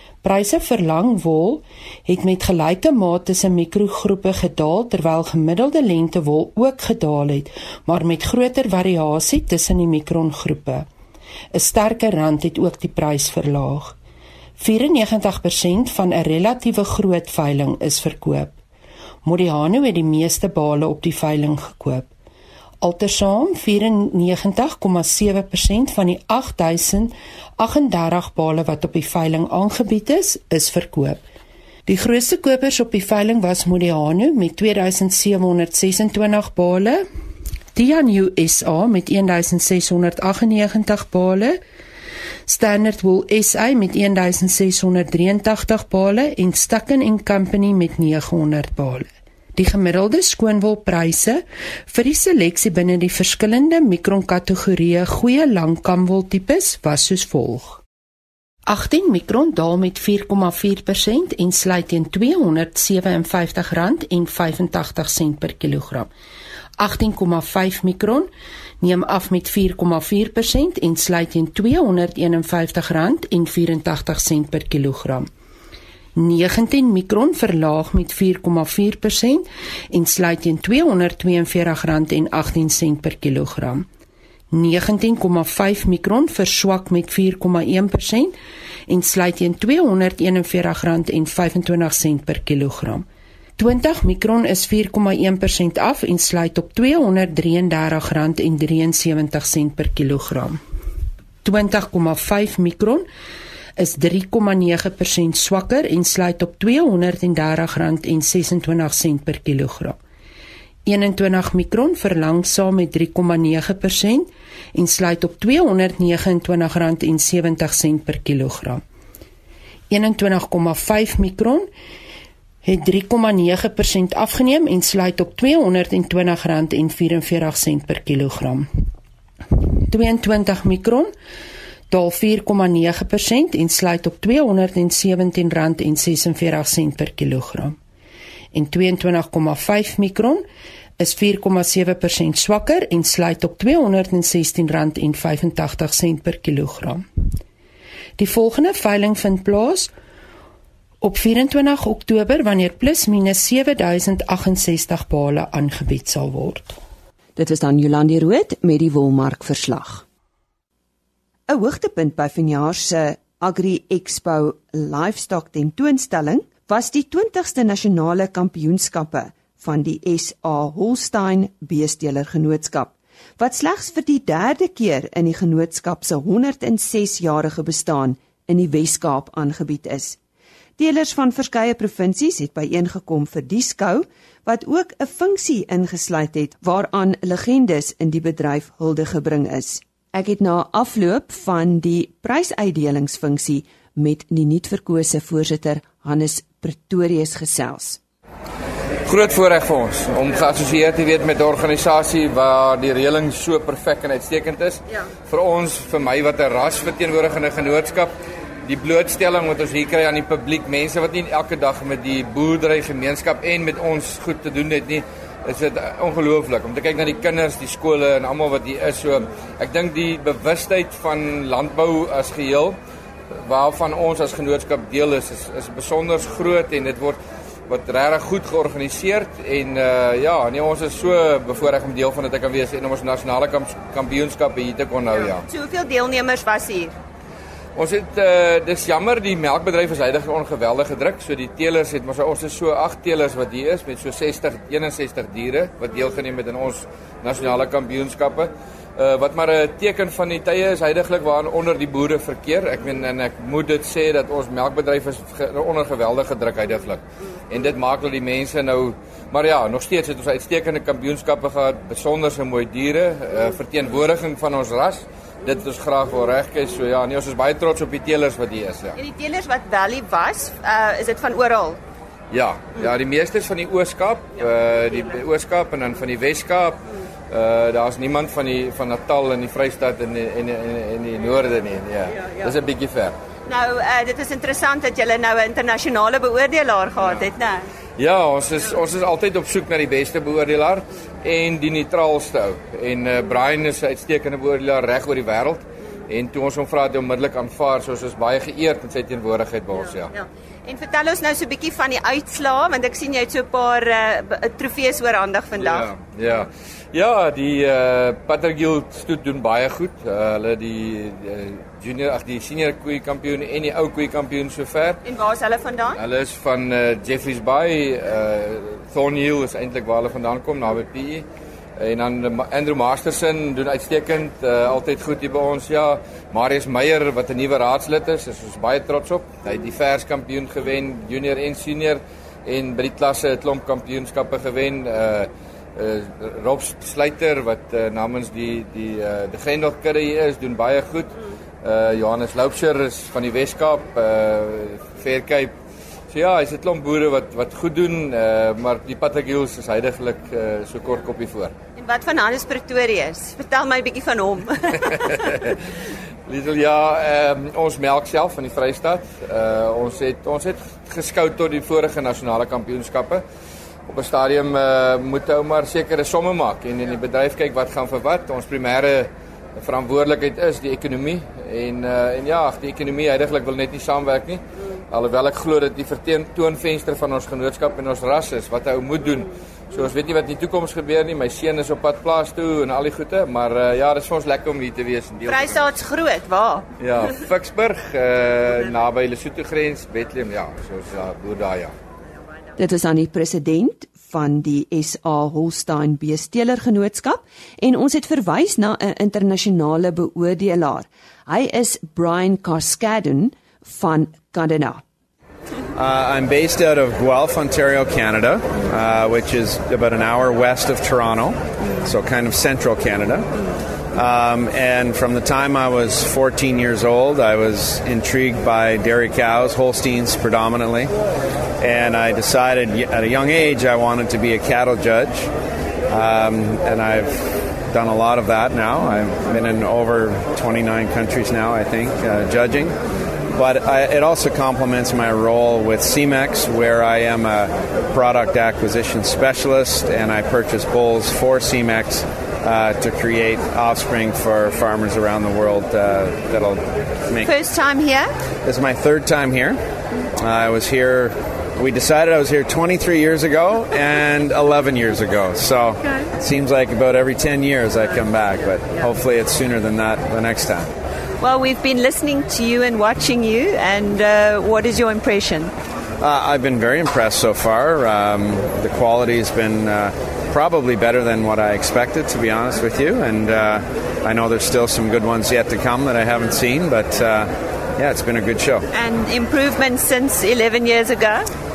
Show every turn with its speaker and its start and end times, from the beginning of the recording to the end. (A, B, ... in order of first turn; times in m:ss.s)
0:00.2-0:10.9 A
0:11.5-0:14.0 A
0:14.6-0:18.6 A
0:19.2-0:22.1 A
0:22.8-0:31.2 A
0:31.9-0:37.0 A
0:37.8-0:41.6 A
0:42.5-0:57.8 A
0:58.7-1:06.1 A
1:06.8-1:08.3 A
1:08.8-1:15.3 A
1:16.2-1:23.9 A
1:24.5-1:28.3 A
1:28.9-1:33.1 A
1:33.6-1:40.6 A
1:41.4-1:43.1 A
1:43.8-1:50.0 A
1:50.9-1:58.8 A
1:59.9-2:01.7 A
2:02.6-2:08.7 A
2:09.8-2:11.1 A
2:11.9-2:17.8 A
2:18.5-2:20.5 A
2:21.0-2:27.0 A
2:28.2-2:29.9 A
2:31.0-2:36.8 A
2:37.4-2:40.0 B
2:41.5-3:00.2 B
3:00.8-3:18.0 B
3:19.1-3:28.1 C
3:28.7-3:42.8 C
3:43.4-3:55.4 C
3:55.5-3:57.0 D
3:57.8-4:29.0 C
4:29.0-4:31.8 D
4:32.3-4:43.2 C
4:43.5-4:47.7 D
4:48.0-5:00.1 C
5:00.1-5:05.9 D
5:05.6-5:15.0 C
5:15.0-5:16.0 D
5:16.0-5:21.2 C
5:21.8-5:45.5 C
5:46.1-5:51.5 C
5:51.8-5:55.2 D
5:56.3-6:03.2 C
6:03.9-6:25.7 C
6:25.2-6:26.7 D
6:26.8-6:31.8 C
6:32.6-6:44.8 B
6:45.8-6:53.3 E
6:53.9-7:00.9 E
7:01.6-7:05.3 E
7:05.9-7:12.8 E
7:13.3-7:27.3 E
7:27.2-7:28.1 D
7:28.4-7:29.6 E
7:30.2-7:40.7 E
7:41.2-7:45.5 D
7:46.0-7:58.7 E
7:58.7-8:01.3 D